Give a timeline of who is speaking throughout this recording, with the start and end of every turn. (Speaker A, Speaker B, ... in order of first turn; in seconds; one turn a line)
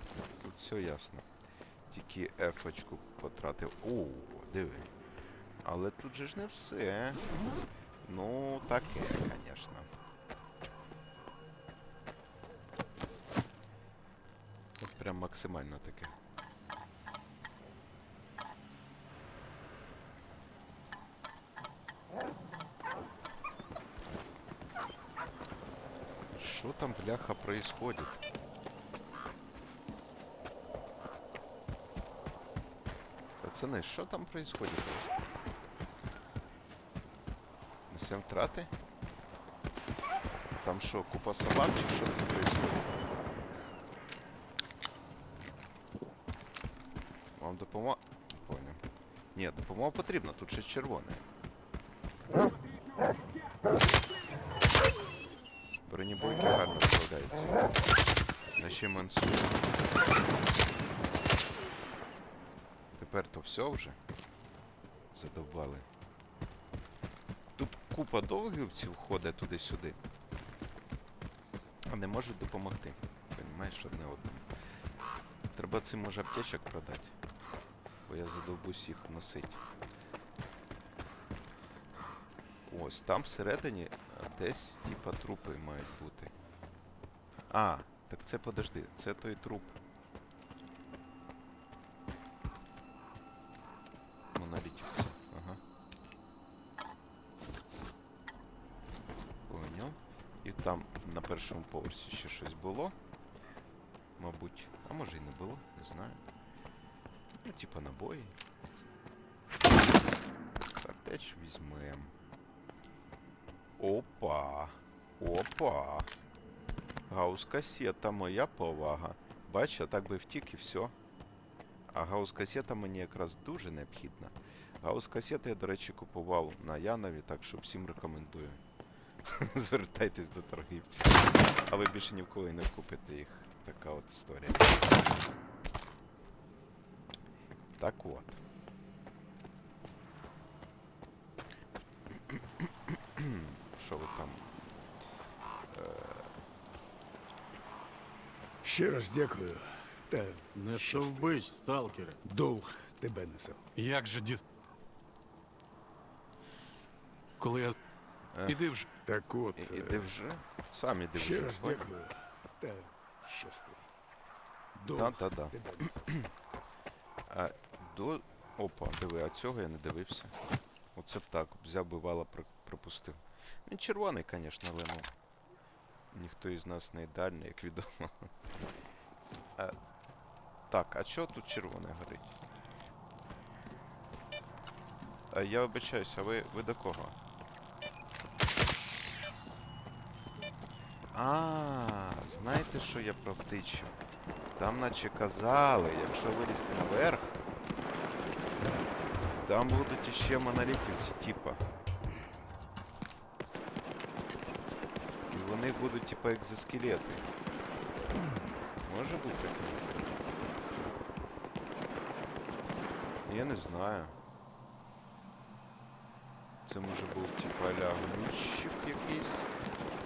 Speaker A: 0.4-1.3
Speaker A: 1.9-4.9
Speaker A: 5.6-7.3
Speaker A: 8.0-9.9
Speaker A: 14.8-16.2
Speaker A: 26.4-28.2
Speaker A: 33.4-35.2
Speaker A: 37.9-38.7
Speaker A: 40.6-42.9
Speaker A: 47.4-48.8
Speaker A: 49.4-51.2
Speaker A: 55.9-57.7
Speaker A: 58.6-59.6
Speaker A: 63.0-64.0
Speaker A: 65.1-65.9
Speaker A: 67.6-70.0
Speaker A: 71.9-74.5
Speaker A: 75.5-77.2
Speaker A: 78.1-79.6
Speaker A: 82.7-86.3
Speaker A: 87.5-89.8
Speaker A: 94.3-95.6
Speaker A: 99.5-103.0
Speaker A: 104.2-106.2
Speaker A: 107.4-108.4
Speaker A: 110.7-112.1
Speaker A: 113.8-116.1
Speaker A: 117.1-120.9
Speaker A: 121.9-128.6
Speaker A: 129.2-135.0
Speaker A: 137.8-138.4
Speaker A: 143.2-144.4
Speaker A: 145.7-146.3
Speaker B: 148.6-151.4
Speaker C: 150.6-152.2
Speaker B: 152.2-153.6
Speaker C: 153.8-154.4
Speaker C: 157.4-157.8
Speaker A: 158.3-158.8
Speaker C: 158.5-158.8
Speaker B: 159.0-160.1
Speaker A: 159.6-161.9
Speaker B: 161.2-163.9
Speaker B: 164.8-166.0
Speaker A: 164.9-166.3
Speaker A: 167.3-170.3
Speaker A: 170.9-175.1
Speaker A: 176.1-178.3
Speaker A: 180.7-182.4
Speaker A: 185.3-187.2
Speaker A: 191.1-194.0
Speaker A: 194.6-197.4
Speaker A: 199.4-201.6
Speaker A: 205.3-207.3
Speaker A: 208.8-210.0
Speaker A: 213.2-214.2
Speaker A: 216.7-219.5